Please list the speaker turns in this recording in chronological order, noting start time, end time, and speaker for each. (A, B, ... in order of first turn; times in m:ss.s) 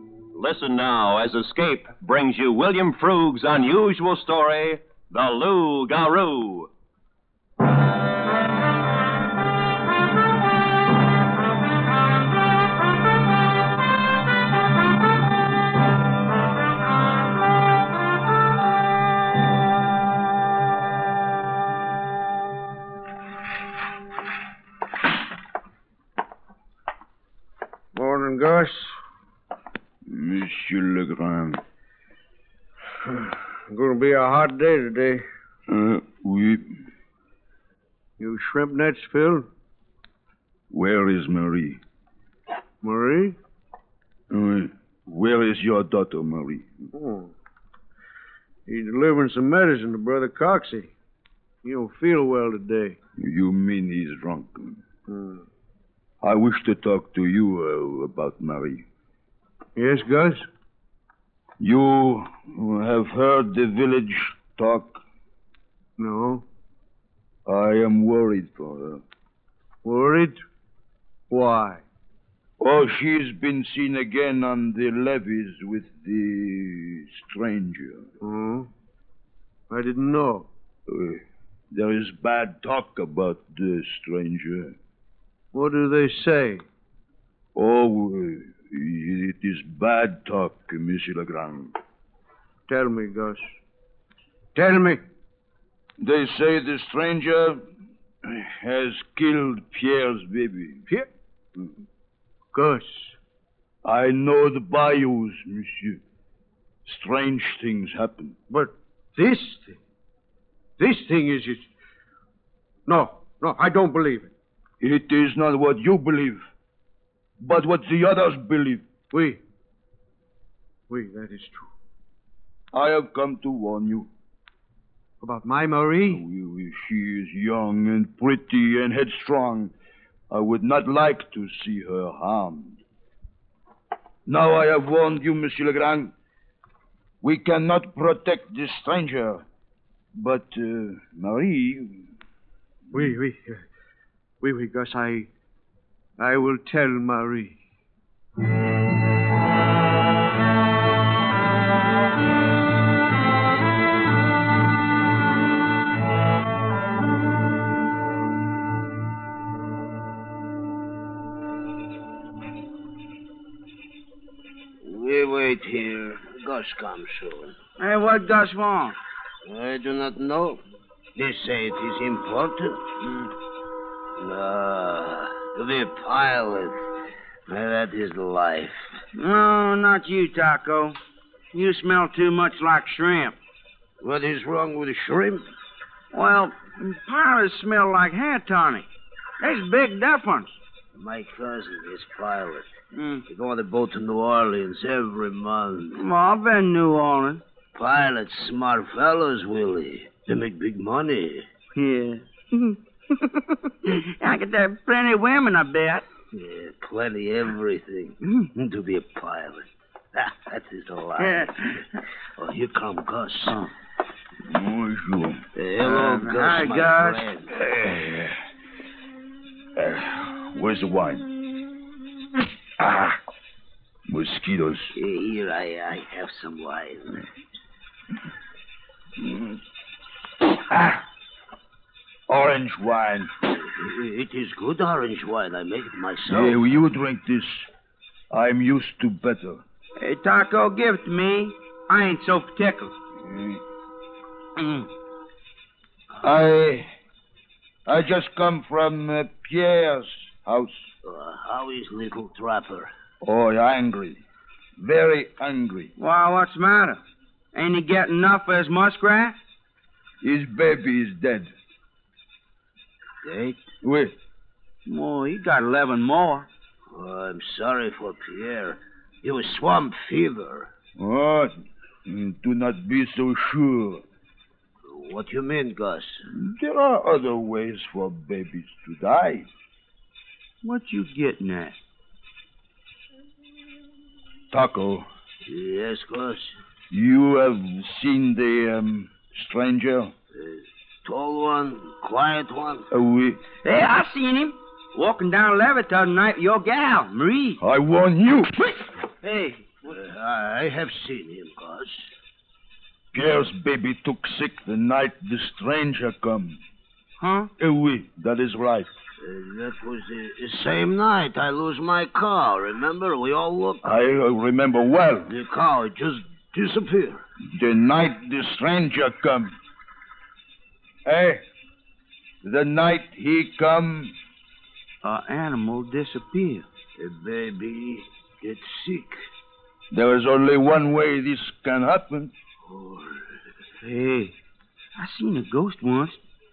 0:00.3-0:06.7 A
0:27.9-0:28.9 B
0:30.0-0:31.6 C
0:33.1-0:35.2 B
0:35.7-0:36.7 C
0:38.2-0:39.5 B
0:40.7-0:41.8 C
0:42.8-0:43.4 B
0:44.3-0:46.7 C
0:46.9-0:47.3 B
0:48.6-0:50.9 B
0:51.6-0:53.0 B
0:53.2-0:54.8 C
0:55.1-0:55.4 B
0:56.2-0:58.8 C
0:59.8-1:00.4 B
1:01.6-1:05.0 C
1:06.0-1:06.4 B
1:07.4-1:09.0 C
1:09.8-1:10.4 B
1:11.3-1:11.8 B
1:12.6-1:18.1 C
1:18.2-1:18.7 B
1:19.7-1:20.5 B
1:20.9-1:24.8 C
1:25.5-1:26.6 B
1:27.5-1:31.8 C
1:32.7-1:33.4 B
1:34.5-1:35.0 B
1:36.0-1:37.6 C
1:38.2-1:40.8 C
1:42.5-1:43.1 B
1:43.8-1:46.0 C
1:46.8-1:48.4 C
1:48.5-1:49.8 B
1:50.8-1:51.7 B
1:52.8-1:54.3 B
1:54.8-1:56.4 C
1:57.4-1:58.8 C
1:59.1-1:59.4 B
2:00.9-2:01.7 B
2:02.7-2:04.1 C
2:05.2-2:06.2 B
2:06.1-2:09.7 C
2:10.3-2:12.8 C
2:14.2-2:16.1 C
2:17.2-2:19.4 C
2:20.2-2:22.1 C
2:22.9-2:23.6 B
2:24.4-2:25.3 B
2:26.2-2:27.6 B
2:44.8-2:47.6 D
2:47.8-2:49.0 E
2:49.4-2:50.6 D
2:51.1-2:53.3 D
2:54.2-2:56.8 D
2:57.5-2:58.9 D
2:59.1-3:01.0 E
3:01.5-3:03.4 E
3:04.0-3:05.5 D
3:06.1-3:08.9 E
3:09.4-3:10.6 E
3:10.9-3:12.7 D
3:12.9-3:13.2 E
3:13.3-3:16.0 D
3:16.0-3:17.4 E
3:17.7-3:21.5 D
3:21.7-3:22.8 E
3:23.8-3:26.1 E
3:26.3-3:31.8 D
3:31.2-3:31.7 E
3:32.4-3:33.6 D
3:34.4-3:35.4 C
3:35.5-3:37.5 D
3:35.8-3:37.2 E
3:37.6-3:38.4 C
3:39.8-3:41.3 C
3:42.8-3:43.2 C
3:44.1-3:44.9 C
3:45.0-3:47.2 D
3:49.2-3:49.6 C
3:50.6-3:51.0 C
3:52.3-3:53.3 C
3:53.6-3:56.6 D
3:56.3-3:57.7 C
3:58.3-3:59.6 C
4:00.0-4:02.9 E
4:03.2-4:03.6 C
4:04.6-4:04.8 E
4:06.2-4:06.9 C
4:07.8-4:10.9 C
4:11.0-4:12.9 D
4:13.2-4:14.2 C
4:14.8-4:15.9 C
4:16.0-4:17.0 E
4:17.5-4:19.4 E
4:20.2-4:21.5 C
4:23.2-4:23.6 D
4:23.8-4:24.1 C
4:24.8-4:26.5 E
4:26.9-4:30.7 D
4:31.0-4:34.0 C
4:34.8-4:36.2 D
4:36.3-4:39.5 C
4:40.6-4:41.8 E
4:44.5-4:45.1 C
4:45.4-4:46.5 D
4:46.9-4:50.1 C
4:50.3-4:52.9 D
4:52.9-4:53.4 C
4:53.6-4:57.6 E
4:57.6-4:58.9 C
4:59.2-4:59.6 E
4:59.8-5:02.1 D
5:03.1-5:06.6 C
5:07.2-5:07.5 E
5:07.6-5:08.9 C
5:09.2-5:13.9 D
5:13.8-5:15.3 C
5:15.3-5:17.2 D
5:17.5-5:19.6 C
5:21.0-5:21.4 C
5:22.4-5:24.1 C
5:25.0-5:26.7 E
5:27.0-5:29.2 D
5:29.9-5:32.3 C
5:32.6-5:33.3 D
5:33.8-5:34.3 E
5:35.0-5:36.2 E